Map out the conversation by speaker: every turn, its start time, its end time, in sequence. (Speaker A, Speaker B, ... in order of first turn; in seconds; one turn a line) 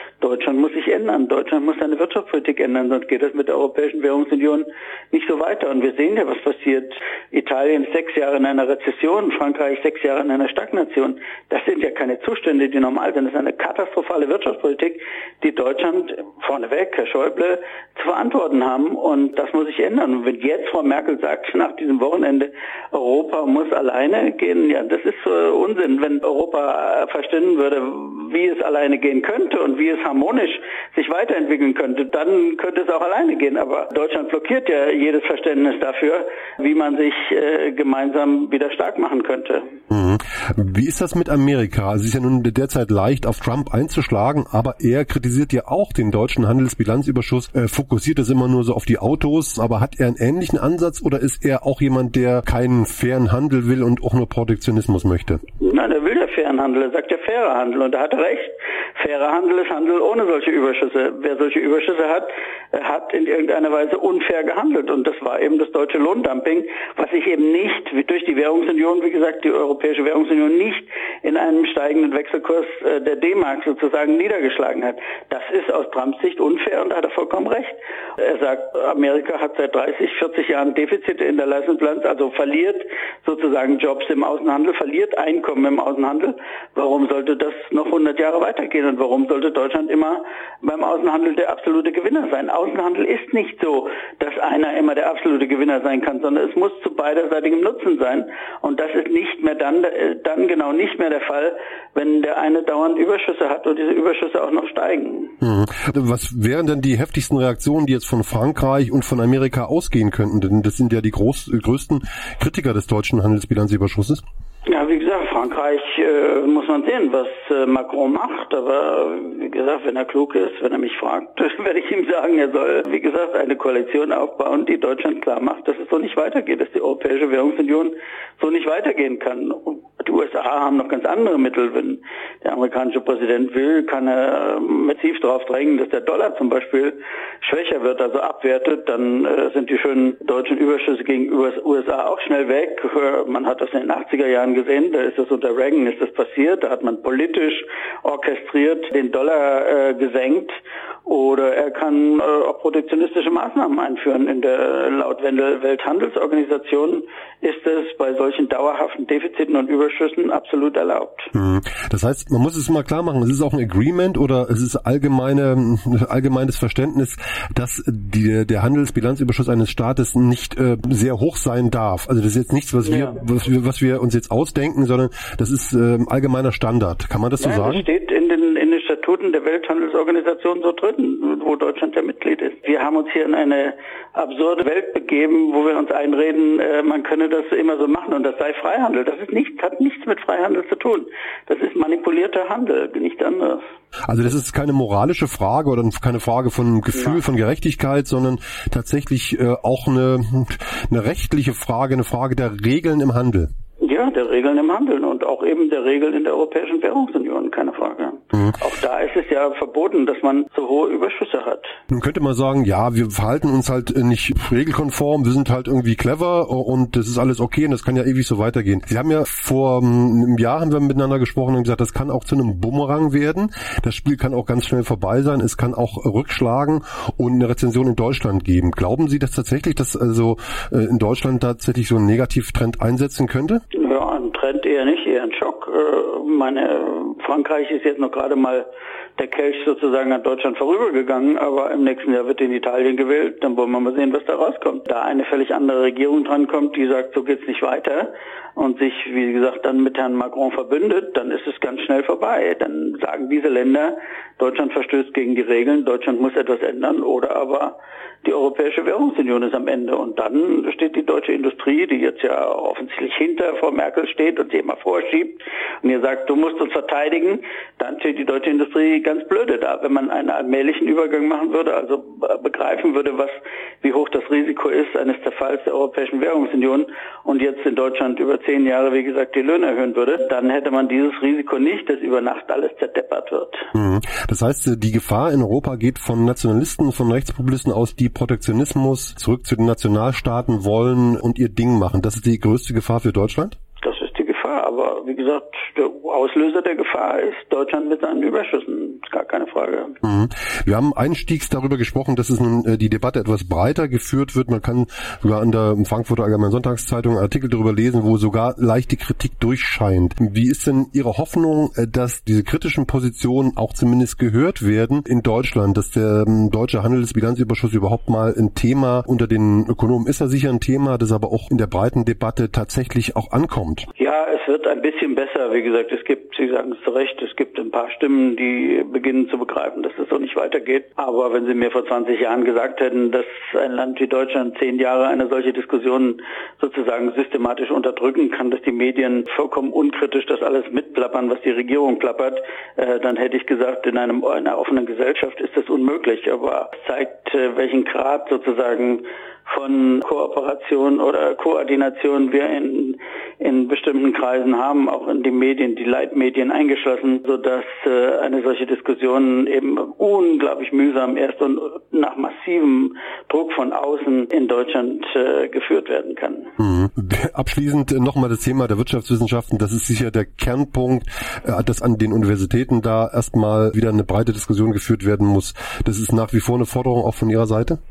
Speaker A: 0.2-39.7
Speaker B: 39.9-55.4
Speaker A: 55.6-105.4
Speaker B: 105.4-114.2
Speaker A: 114.7-161.3
Speaker B: 161.3-177.9
Speaker A: 172.8-173.2
Speaker A: 177.4-193.7
Speaker B: 194.1-203.5
Speaker A: 196.9-197.2
Speaker A: 203.8-211.8
Speaker B: 211.9-233.6
Speaker A: 233.7-283.7
Speaker B: 283.7-293.6
Speaker A: 293.8-300.0
Speaker B: 300.0-323.9
Speaker A: 324.0-366.5
Speaker B: 366.6-377.8